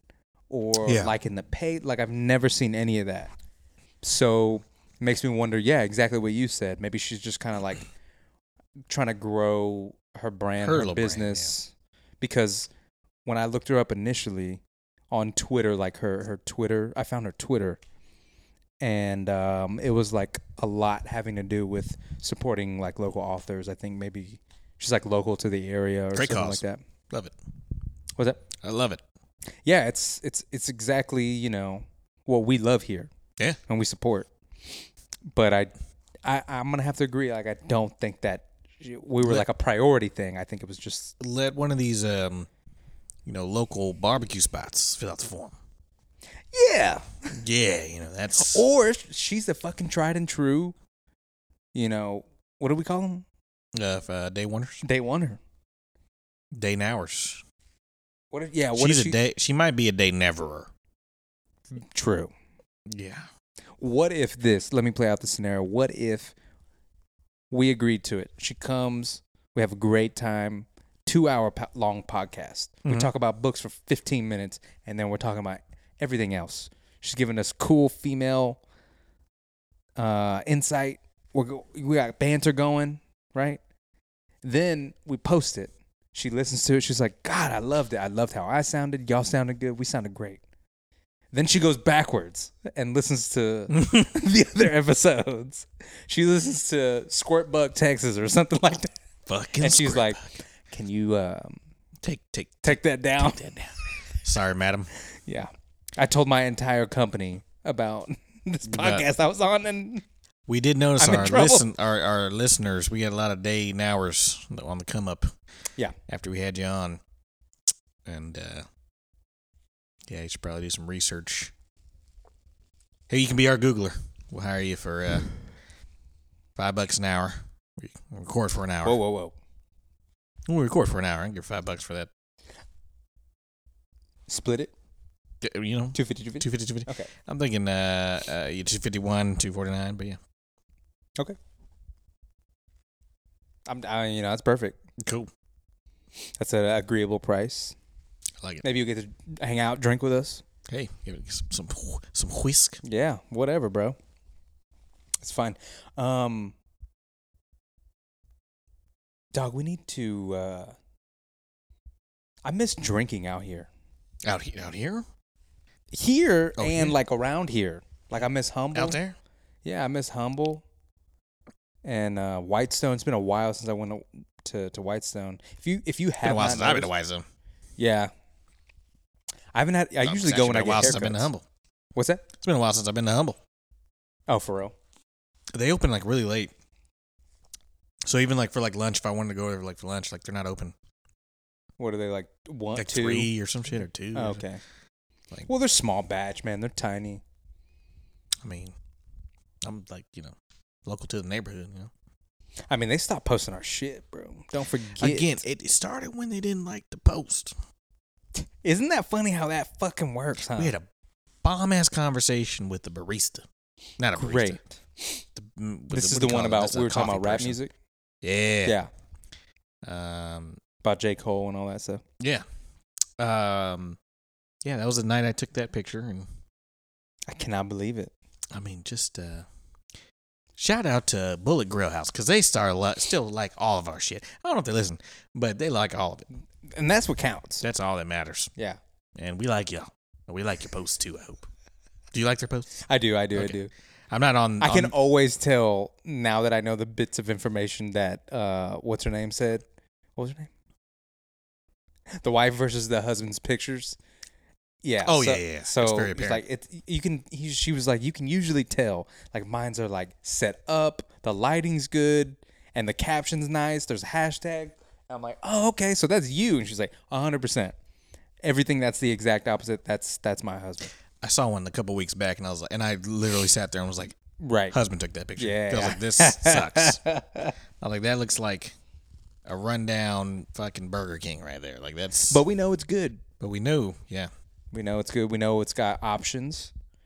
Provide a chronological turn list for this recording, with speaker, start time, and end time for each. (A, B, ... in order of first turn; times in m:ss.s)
0:00.5-0:03.3 A
0:00.8-0:01.1 B
0:04.0-0:07.9 A
0:08.9-0:12.7 A
0:10.6-0:11.6 B
0:13.3-0:17.8 A
0:18.8-0:26.8 A
0:26.1-0:27.4 B
0:28.2-0:28.4 A
0:28.6-0:29.0 B
0:29.6-0:33.1 A
0:33.7-0:34.3 A
0:35.3-0:35.7 A
0:36.2-0:41.2 A
0:41.2-0:42.5 B
0:43.3-0:45.6 B
0:46.5-0:47.3 A
0:47.3-0:48.6 B
0:48.4-0:50.8 A
0:51.7-0:53.2 A
0:53.7-0:54.8 B
0:54.8-0:55.4 A
0:56.5-0:57.4 B
0:58.3-0:59.2 A
0:58.8-1:00.7 B
1:01.7-1:02.3 A
1:02.9-1:03.3 B
1:03.8-1:06.3 A
1:07.5-1:18.6 A
1:20.0-1:23.6 A
1:24.4-1:30.4 A
1:31.3-1:38.9 A
1:39.3-1:40.2 B
1:39.6-1:41.6 A
1:42.0-1:44.9 B
1:42.6-1:43.6 A
1:45.3-1:50.0 A
1:48.7-1:49.1 B
1:50.5-1:55.3 B
1:51.0-1:51.6 A
1:56.1-1:57.0 B
1:58.1-1:58.7 B
2:00.1-2:01.5 B
2:03.1-2:05.3 B
2:06.6-2:09.0 B
2:08.8-2:09.4 A
2:10.5-2:12.1 B
2:14.3-2:14.7 A
2:15.4-2:20.2 B
2:15.9-2:17.1 A
2:23.7-2:24.8 A
2:25.0-2:25.3 B
2:26.4-2:27.8 A
2:28.6-2:30.4 A
2:30.7-2:32.8 B
2:32.8-2:34.0 A
2:35.2-2:36.6 A
2:39.3-2:40.8 A
2:42.4-2:43.7 A
2:44.2-2:45.1 B
2:45.9-2:49.0 A
2:46.6-2:47.0 B
2:48.7-2:49.2 B
2:49.6-2:50.6 A
2:51.8-2:56.9 A
2:56.2-2:57.3 B
2:57.8-2:58.1 A
2:59.5-3:01.3 A
3:00.0-3:01.4 B
3:02.0-3:02.3 A
3:02.4-3:03.4 B
3:04.3-3:04.8 A
3:05.5-3:06.5 B
3:08.1-3:10.8 B
3:11.8-3:13.3 A
3:12.8-3:14.4 B
3:14.1-3:14.6 A
3:15.5-3:17.2 A
3:18.4-3:18.8 B
3:19.6-3:21.9 B
3:22.7-3:25.4 A
3:25.0-3:27.5 B
3:28.4-3:30.7 A
3:30.5-3:30.9 B
3:31.4-3:33.4 B
3:34.0-3:34.6 B
3:34.1-3:35.2 A
3:35.4-3:37.6 B
3:35.9-3:37.7 A
3:38.2-3:38.8 B
3:38.6-3:38.9 A
3:39.8-3:40.6 B
3:40.8-3:42.0 A
3:42.2-3:42.4 B
3:43.2-3:44.0 B
3:44.6-3:46.3 B
3:47.3-3:48.1 A
3:48.5-3:49.5 B
3:50.6-3:56.3 B
3:56.7-3:57.6 A
3:57.6-3:58.5 B
3:59.2-4:01.5 B
4:02.1-4:02.8 B
4:02.8-4:03.7 A
4:04.1-4:05.0 B
4:04.6-4:09.6 A
4:10.2-4:10.5 A
4:12.2-4:14.0 A
4:14.8-4:27.8 A
4:15.0-4:16.4 B
4:28.4-4:30.9 A
4:31.2-4:34.2 B
4:34.4-4:34.8 A
4:34.7-4:37.0 B
4:35.4-4:37.5 A
4:37.8-4:38.8 B
4:39.5-4:42.4 B
4:42.3-4:43.2 A
4:43.4-4:44.3 B
4:44.7-4:46.7 A